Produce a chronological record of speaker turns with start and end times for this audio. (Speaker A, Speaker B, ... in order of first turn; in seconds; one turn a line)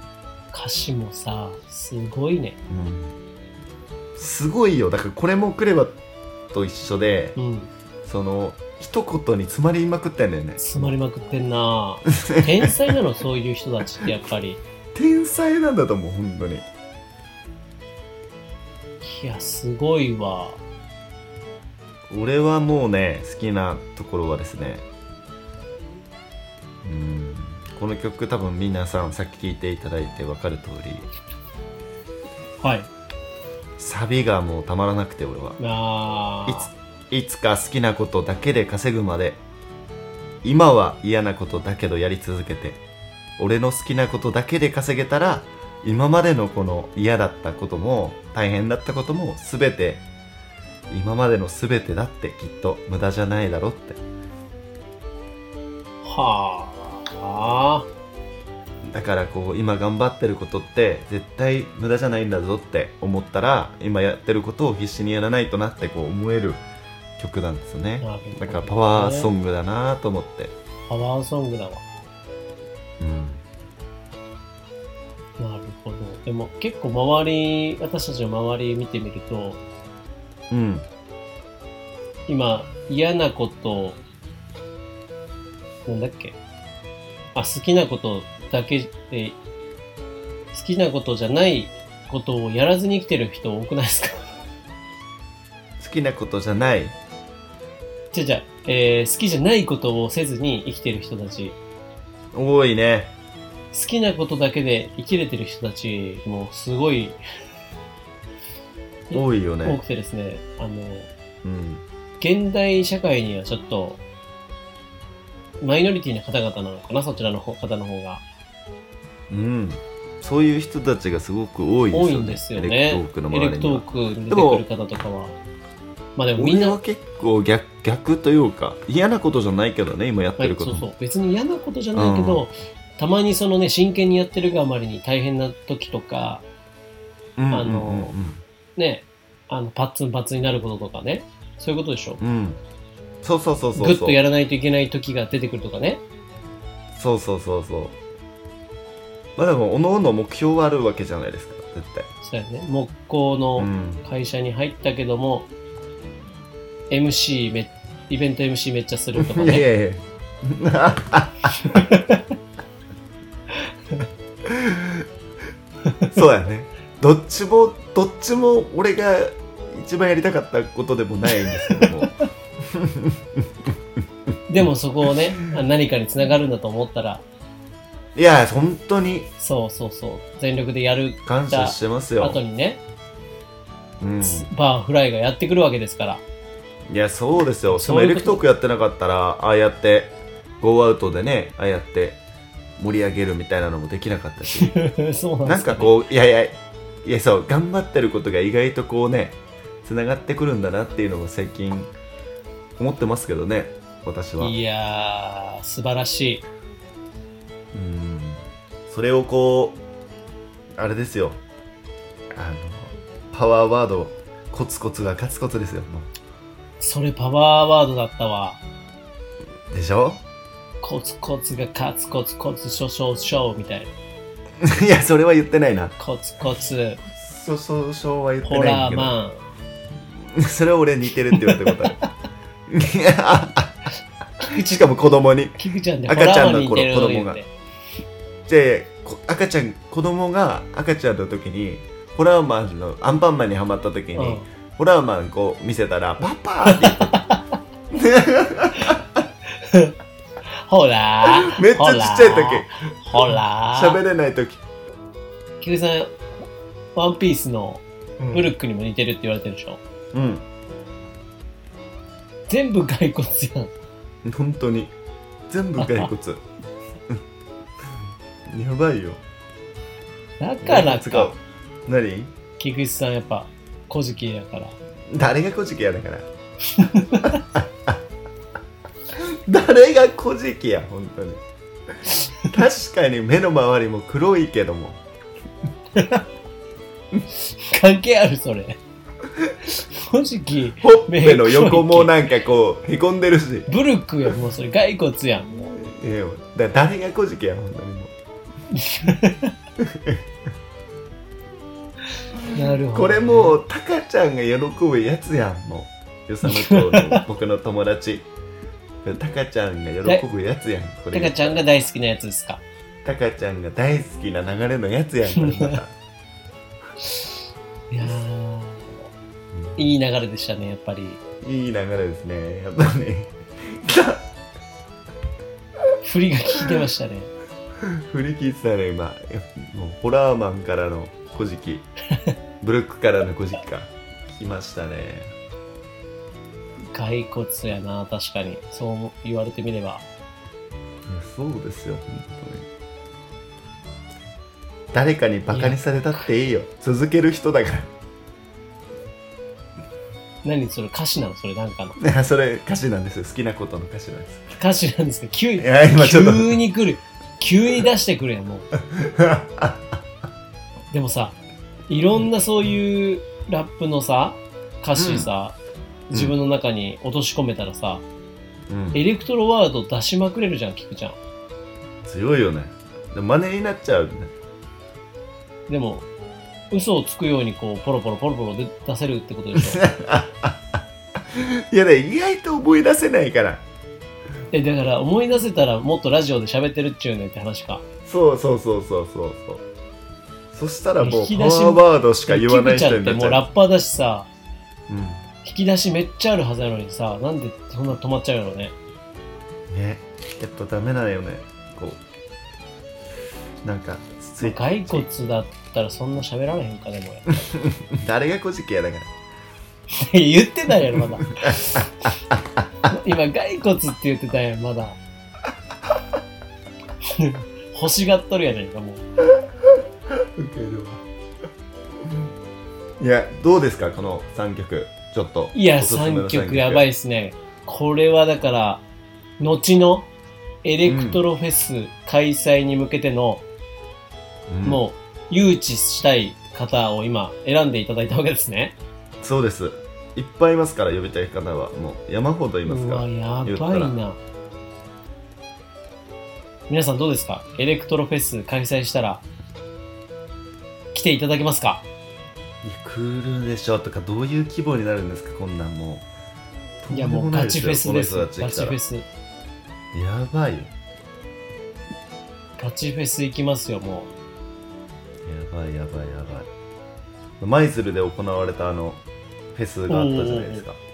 Speaker A: 0.5-2.6
Speaker B: 2.7-3.1
Speaker B: 4.2-6.0
Speaker B: 6.5-7.4
Speaker A: 7.4-7.7
Speaker B: 8.0-10.9
Speaker A: 10.6-14.6
Speaker B: 12.2-12.7
Speaker B: 14.9-16.7
Speaker A: 19.0-20.6
Speaker B: 22.1-24.9
Speaker B: 26.8-31.1
Speaker A: 32.6-32.9
Speaker B: 33.8-35.6
Speaker A: 35.6-36.7
Speaker B: 36.5-39.4
Speaker B: 40.4-42.8
Speaker B: 43.4-50.0
Speaker B: 50.9-54.0
Speaker A: 56.0-57.9
Speaker B: 58.9-66.6
Speaker B: 67.2-70.5
Speaker A: 68.0-69.3
Speaker A: 70.9-71.8
Speaker B: 73.0-73.4
Speaker A: 75.4-79.6
Speaker B: 80.5-80.9
Speaker A: 82.3-84.0
Speaker A: 85.9-86.4
Speaker A: 87.3-89.4
Speaker A: 90.5-94.2
Speaker B: 95.8-97.0
Speaker A: 98.1-101.6
Speaker B: 102.3-103.1
Speaker A: 103.7-107.2
Speaker A: 109.1-111.1
Speaker B: 109.1-109.8
Speaker B: 111.4-111.8
Speaker A: 112.2-114.0
Speaker A: 115.6-118.2
Speaker B: 119.3-124.7
Speaker A: 121.9-125.3
Speaker A: 126.2-126.8
Speaker B: 126.4-130.9
Speaker A: 130.4-136.4
Speaker B: 131.9-132.5
Speaker B: 137.4-138.4
Speaker A: 137.5-138.2
Speaker A: 138.8-142.2
Speaker B: 142.2-142.6
Speaker B: 143.2-144.2
Speaker A: 143.8-146.0
Speaker B: 146.9-148.0
Speaker B: 149.4-152.1
Speaker A: 152.2-155.5
Speaker B: 153.6-154.0
Speaker A: 156.9-159.7
Speaker B: 159.2-161.9
Speaker A: 161.6-162.3
Speaker A: 163.6-164.1
Speaker B: 164.4-165.1
Speaker A: 165.8-166.1
Speaker B: 166.1-173.4
Speaker A: 171.5-171.9
Speaker A: 174.5-177.2
Speaker B: 178.2-179.3
Speaker A: 179.4-182.8
Speaker B: 181.3-182.4
Speaker B: 184.0-184.5
Speaker A: 184.2-186.2
Speaker B: 186.9-192.2
Speaker A: 187.7-188.4
Speaker B: 192.8-194.8
Speaker A: 194.5-195.9
Speaker B: 195.4-201.9
Speaker B: 202.8-204.6
Speaker A: 204.4-206.4
Speaker B: 207.7-209.8
Speaker B: 210.8-211.4
Speaker B: 212.3-216.1
Speaker A: 216.8-218.6
Speaker B: 219.7-220.2
Speaker A: 220.8-223.9
Speaker B: 224.6-225.9
Speaker A: 226.0-227.0
Speaker B: 227.0-229.2
Speaker A: 228.4-229.5
Speaker B: 230.2-232.0
Speaker B: 232.7-233.8
Speaker A: 234.4-234.9
Speaker B: 234.5-237.4
Speaker A: 235.6-237.5
Speaker B: 238.5-247.2
Speaker A: 244.2-244.5
Speaker A: 246.7-247.6
Speaker B: 247.9-249.2
Speaker A: 249.5-249.9
Speaker A: 250.5-254.0
Speaker B: 251.2-254.6
Speaker A: 255.6-256.2
Speaker A: 256.9-259.8
Speaker B: 258.2-258.5
Speaker B: 260.1-260.4
Speaker A: 262.5-263.7
Speaker B: 264.2-264.9
Speaker B: 265.5-266.4
Speaker A: 265.8-266.1
Speaker B: 268.5-269.2
Speaker A: 270.4-271.3
Speaker B: 270.6-272.3
Speaker A: 272.6-274.8
Speaker B: 275.1-276.3
Speaker A: 276.7-277.4
Speaker B: 277.2-278.0
Speaker B: 279.2-281.4
Speaker B: 282.4-285.0
Speaker A: 286.0-286.2
Speaker A: 287.5-288.8
Speaker A: 289.8-292.1
Speaker B: 290.8-293.7
Speaker A: 293.7-295.8
Speaker B: 295.8-298.1
Speaker A: 298.7-299.5
Speaker B: 299.8-300.2
Speaker A: 302.5-303.6
Speaker B: 302.9-308.3
Speaker A: 306.5-307.2
Speaker B: 309.0-311.6
Speaker A: 311.1-312.6
Speaker B: 313.0-315.9
Speaker A: 315.4-315.8
Speaker A: 317.9-319.0
Speaker B: 319.5-319.8
Speaker A: 319.8-321.2
Speaker B: 321.4-324.3
Speaker A: 326.0-327.3
Speaker B: 327.8-331.9
Speaker B: 332.6-335.3
Speaker A: 336.9-340.0
Speaker B: 341.1-342.7
Speaker B: 344.9-347.9
Speaker A: 345.5-346.2
Speaker A: 350.4-352.0
Speaker B: 352.0-354.5
Speaker A: 354.6-358.7
Speaker B: 355.6-356.6
Speaker B: 358.9-360.0
Speaker A: 360.9-361.4
Speaker A: 361.9-365.6
Speaker B: 365.0-365.3
Speaker A: 366.1-368.0
Speaker B: 368.7-369.0
Speaker A: 368.9-371.2
Speaker B: 372.1-374.3
Speaker A: 375.7-376.1
Speaker A: 376.7-379.9
Speaker B: 379.6-383.6
Speaker A: 384.5-387.9
Speaker B: 388.1-389.6
Speaker B: 390.5-393.4
Speaker A: 391.0-394.3
Speaker B: 394.9-395.2
Speaker A: 395.4-398.8
Speaker B: 399.7-402.0
Speaker B: 403.6-405.1
Speaker A: 404.4-407.5
Speaker B: 407.6-409.1
Speaker A: 409.9-412.1
Speaker B: 411.4-412.6
Speaker A: 412.9-415.0
Speaker A: 417.1-419.0
Speaker B: 420.1-421.0
Speaker B: 423.0-426.9
Speaker A: 425.5-428.8
Speaker A: 429.4-430.1
Speaker A: 430.6-433.4
Speaker B: 430.9-431.2
Speaker B: 434.5-434.8
Speaker A: 434.6-438.8
Speaker B: 439.2-444.0
Speaker A: 442.7-444.2
Speaker A: 446.7-449.2
Speaker A: 450.9-451.9
Speaker B: 452.6-456.1
Speaker B: 456.8-458.8
Speaker A: 456.9-459.1
Speaker B: 459.9-460.7
Speaker A: 462.6-464.1
Speaker B: 465.2-466.5
Speaker B: 467.4-469.0
Speaker B: 469.5-470.8
Speaker A: 469.9-470.6